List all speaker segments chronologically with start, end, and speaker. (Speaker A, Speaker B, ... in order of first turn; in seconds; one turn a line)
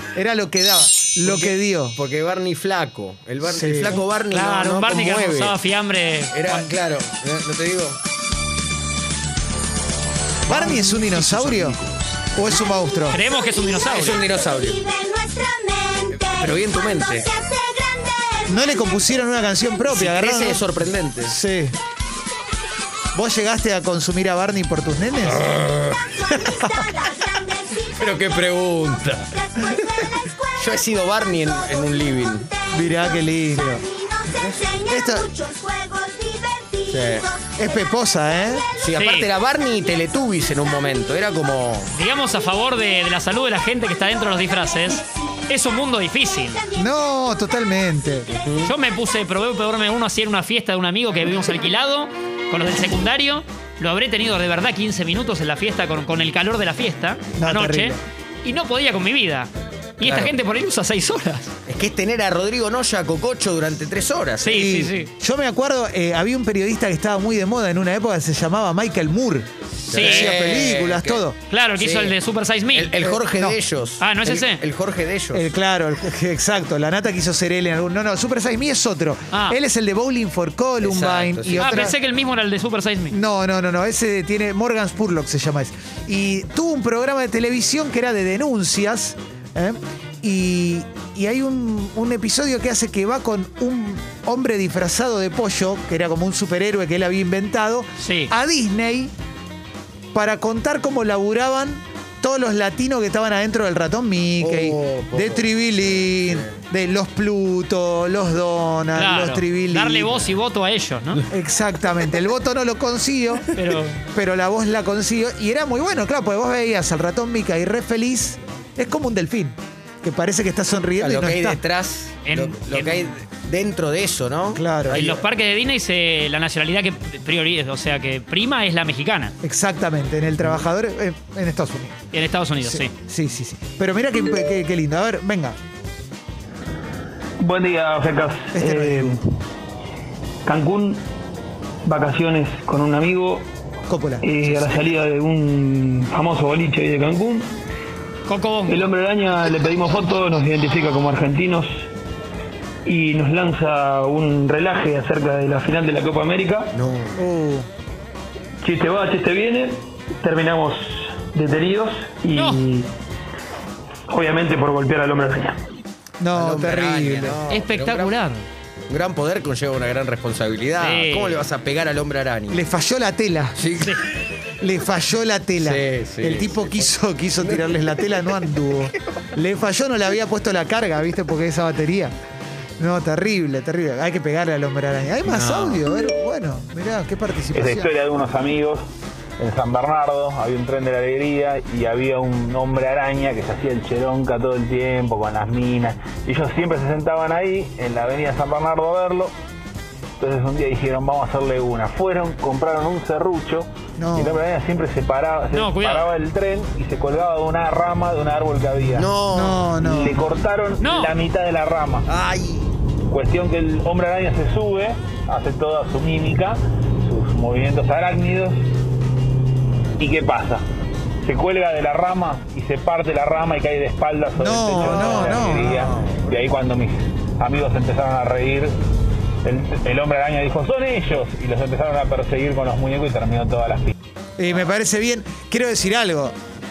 Speaker A: 0.1-2.0
Speaker B: 1.2-5.6
Speaker A: 3.4-4.0
Speaker C: 4.3-6.7
Speaker B: 6.3-8.0
Speaker A: 10.5-11.8
Speaker B: 10.5-11.8
Speaker A: 12.4-13.2
Speaker C: 13.1-14.2
Speaker B: 13.9-14.8
Speaker B: 16.1-17.3
Speaker A: 18.5-20.7
Speaker B: 19.9-21.3
Speaker A: 21.2-21.8
Speaker A: 23.1-25.5
Speaker B: 25.2-26.1
Speaker B: 28.0-29.6
Speaker B: 30.6-32.5
Speaker A: 32.7-33.8
Speaker B: 34.4-34.8
Speaker A: 34.9-35.4
Speaker B: 36.9-37.3
Speaker A: 37.6-38.6
Speaker B: 38.8-41.9
Speaker C: 39.0-39.3
Speaker C: 41.9-46.6
Speaker A: 46.8-48.3
Speaker B: 48.3-48.7
Speaker C: 48.6-61.5
Speaker A: 57.4-58.0
Speaker B: 60.0-60.3
Speaker B: 61.7-64.6
Speaker C: 64.4-65.1
Speaker A: 64.5-71.4
Speaker B: 69.9-71.2
Speaker C: 69.9-70.3
Speaker C: 71.5-73.0
Speaker B: 71.8-72.2
Speaker B: 72.7-75.4
Speaker C: 74.0-74.6
Speaker A: 75.3-82.0
Speaker C: 79.3-79.6
Speaker B: 80.8-81.9
Speaker C: 81.6-83.1
Speaker A: 83.1-99.1
Speaker C: 98.0-98.3
Speaker A: 100.1-110.2
Speaker B: 104.4-106.6
Speaker C: 109.0-111.2
Speaker A: 111.3-113.5
Speaker C: 113.5-114.0
Speaker A: 114.1-121.6
Speaker B: 121.0-125.2
Speaker C: 122.2-123.0
Speaker A: 124.5-125.0
Speaker C: 124.9-129.3
Speaker A: 129.4-132.0
Speaker C: 132.1-132.9
Speaker A: 132.6-135.6
Speaker D: 137.4-139.2
Speaker A: 138.5-139.2
Speaker D: 140.5-141.0
Speaker D: 141.9-143.5
Speaker A: 143.9-144.9
Speaker D: 144.2-147.5
Speaker C: 148.3-148.8
Speaker D: 148.7-151.7
Speaker D: 152.9-156.8
Speaker B: 156.7-157.2
Speaker A: 157.2-157.7
Speaker D: 158.6-162.9
Speaker C: 162.3-162.6
Speaker D: 164.1-165.6
Speaker A: 166.2-167.4
Speaker B: 166.3-168.1
Speaker C: 167.5-168.5
Speaker B: 168.9-172.7
Speaker C: 170.8-171.4
Speaker A: 172.5-173.6
Speaker B: 173.6-174.0
Speaker A: 174.6-182.1
Speaker B: 175.6-178.5
Speaker A: 182.8-187.9
Speaker B: 185.2-185.8
Speaker E: 187.5-188.8
Speaker E: 189.4-199.3
Speaker E: 200.2-209.1
Speaker A: 204.0-204.4
Speaker C: 205.5-206.1
Speaker B: 208.9-209.6
Speaker A: 209.3-210.3
Speaker E: 209.8-212.1
Speaker C: 210.8-211.1
Speaker B: 212.1-212.7
Speaker E: 213.1-218.6
Speaker E: 220.0-220.6
Speaker E: 221.2-228.7
Speaker A: 224.3-225.7
Speaker B: 224.8-226.4
Speaker E: 229.4-233.9
Speaker A: 234.4-236.3